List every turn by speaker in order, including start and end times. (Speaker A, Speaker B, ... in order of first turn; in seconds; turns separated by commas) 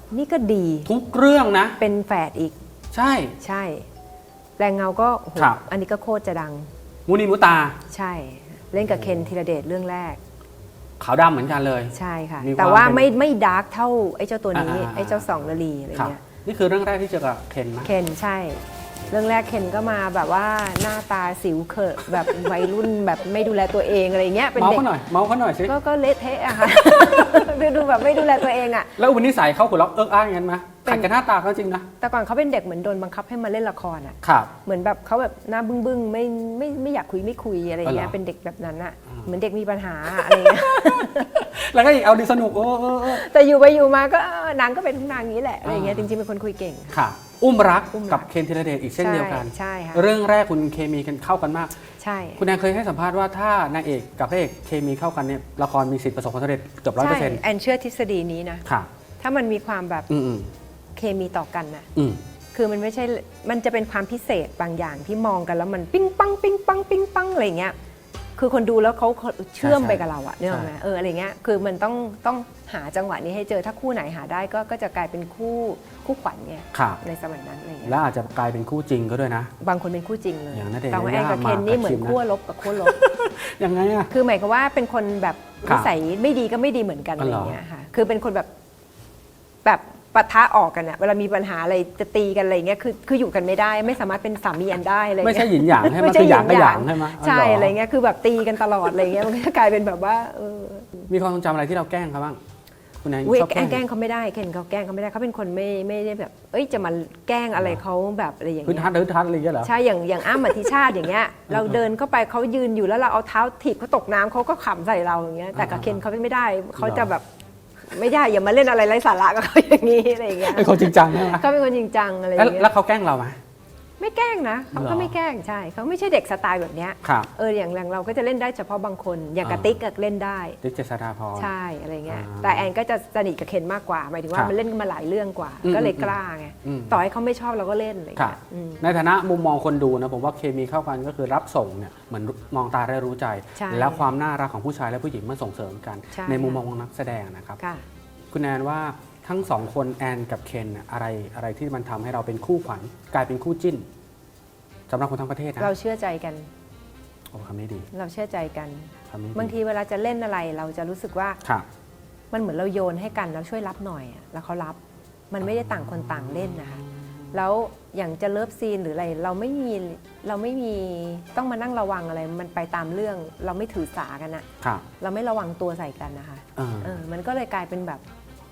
Speaker A: 0.1-0.9, Speaker B: 0.9-1.8, Speaker A: 1.8-2.6, Speaker B: 2.9-3.4, Speaker A: 3.4-3.9, Speaker A: 4.6-6.7, Speaker B: 5.4-5.6, Speaker B: 7.1-7.8, Speaker A: 7.9-10.2, Speaker B: 8.8-9.3, Speaker B: 11.0-13.1, Speaker A: 11.9-16.2, Speaker B: 14.5-17.9, Speaker A: 17.8-24.9, Speaker B: 24.6-25.7, Speaker A: 25.7-28.9, Speaker B: 26.9-27.6, Speaker B: 29.0-31.9, Speaker A: 30.9-31.1, Speaker A: 32.0-41.4, Speaker B: 34.2-34.5, Speaker B: 37.8-38.1, Speaker B: 40.1-43.3, Speaker A: 43.1-47.0, Speaker B: 45.6-46.1, Speaker B: 46.9-51.8, Speaker A: 47.9-48.3, Speaker A: 49.0-50.1, Speaker A: 52.0-52.5, Speaker B: 52.4-57.4, Speaker A: 57.0-58.6, Speaker A: 59.2-60.1, Speaker B: 60.1-60.5, Speaker A: 61.0-61.9, Speaker A: 62.5-67.7, Speaker A: 68.4-78.0, Speaker B: 69.6-70.7, Speaker B: 76.7-77.0, Speaker B: 77.8-79.5, Speaker A: 79.6-83.0, Speaker B: 80.5-84.1, Speaker A: 84.1-88.5, Speaker B: 85.6-85.9, Speaker B: 87.2-87.6, Speaker A: 89.7-101.1, Speaker B: 95.2-97.8, Speaker B: 101.1-102.4, Speaker B: 103.0-103.8, Speaker A: 103.2-108.9, Speaker B: 108.7-109.7, Speaker A: 109.6-117.2, Speaker B: 110.4-110.7, Speaker B: 111.5-111.8, Speaker B: 115.5-116.0, Speaker B: 116.8-117.1, Speaker A: 117.8-122.7, Speaker B: 120.4-121.5, Speaker B: 122.4-123.4, Speaker A: 124.0-130.6, Speaker B: 124.7-125.1, Speaker B: 127.0-127.3, Speaker B: 129.4-129.7, Speaker B: 130.6-131.5, Speaker A: 131.4-138.9, Speaker B: 132.1-132.7, Speaker B: 135.6-137.0, Speaker B: 138.2-147.6, Speaker A: 143.6-144.1, Speaker A: 146.1-146.6, Speaker A: 147.6-147.8, Speaker B: 148.3-153.9, Speaker B: 154.9-155.7, Speaker A: 155.6-156.5, Speaker B: 157.3-157.9, Speaker A: 157.9-161.4, Speaker B: 159.1-159.5, Speaker A: 162.3-164.8, Speaker A: 165.3-174.5, Speaker B: 165.4-167.3, Speaker A: 175.0-178.0, Speaker B: 176.6-177.0